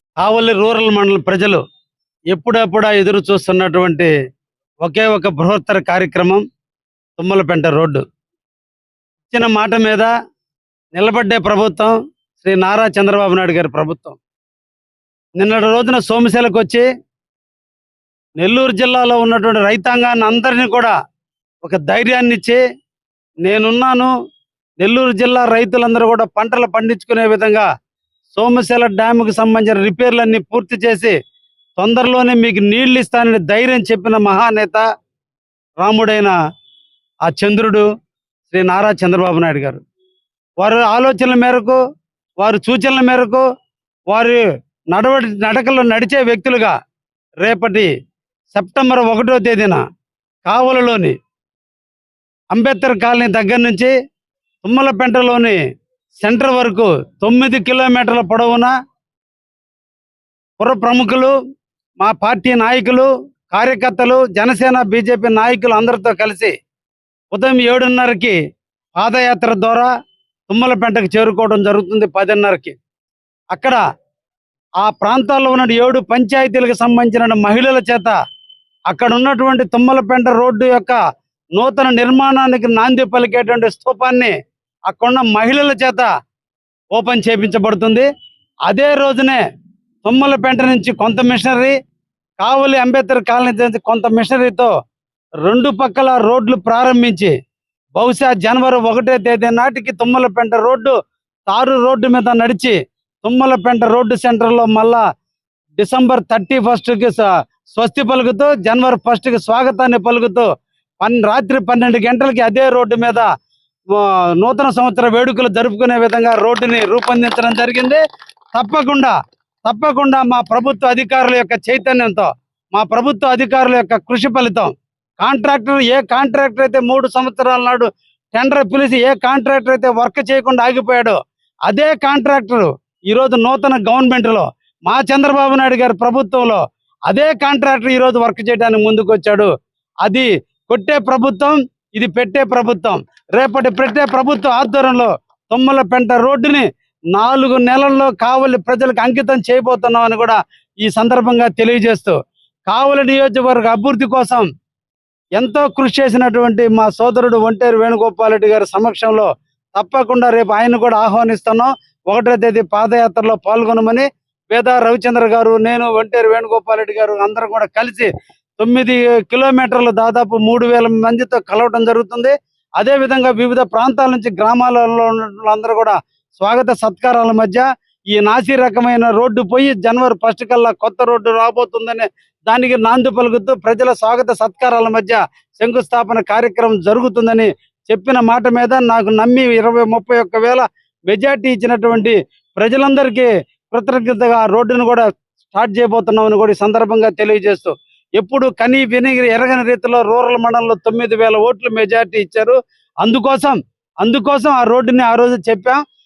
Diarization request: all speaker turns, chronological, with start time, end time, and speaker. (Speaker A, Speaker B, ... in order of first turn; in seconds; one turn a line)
Speaker A: 0.2-1.6
Speaker A: 2.3-4.1
Speaker A: 4.8-6.4
Speaker A: 7.2-8.0
Speaker A: 9.3-10.1
Speaker A: 10.9-14.2
Speaker A: 15.4-16.9
Speaker A: 18.4-20.9
Speaker A: 21.6-22.6
Speaker A: 23.4-24.1
Speaker A: 24.8-27.7
Speaker A: 28.3-31.1
Speaker A: 31.8-34.8
Speaker A: 35.8-36.4
Speaker A: 37.2-37.9
Speaker A: 38.5-39.8
Speaker A: 40.6-41.8
Speaker A: 42.4-43.5
Speaker A: 44.1-46.7
Speaker A: 47.4-47.9
Speaker A: 48.5-49.8
Speaker A: 50.4-51.1
Speaker A: 52.5-53.9
Speaker A: 54.6-55.6
Speaker A: 56.2-58.7
Speaker A: 60.6-61.3
Speaker A: 62.0-66.5
Speaker A: 67.3-68.3
Speaker A: 69.0-69.9
Speaker A: 70.5-72.7
Speaker A: 73.5-73.8
Speaker A: 74.8-78.2
Speaker A: 78.9-81.0
Speaker A: 81.5-84.3
Speaker A: 84.9-86.1
Speaker A: 86.9-88.1
Speaker A: 88.7-89.4
Speaker A: 90.0-91.7
Speaker A: 92.4-94.7
Speaker A: 95.4-97.3
Speaker A: 97.9-100.9
Speaker A: 101.5-105.0
Speaker A: 105.8-110.5
Speaker A: 111.0-113.3
Speaker A: 113.9-118.0
Speaker A: 118.5-139.5
Speaker A: 140.0-154.4
Speaker A: 155.3-205.8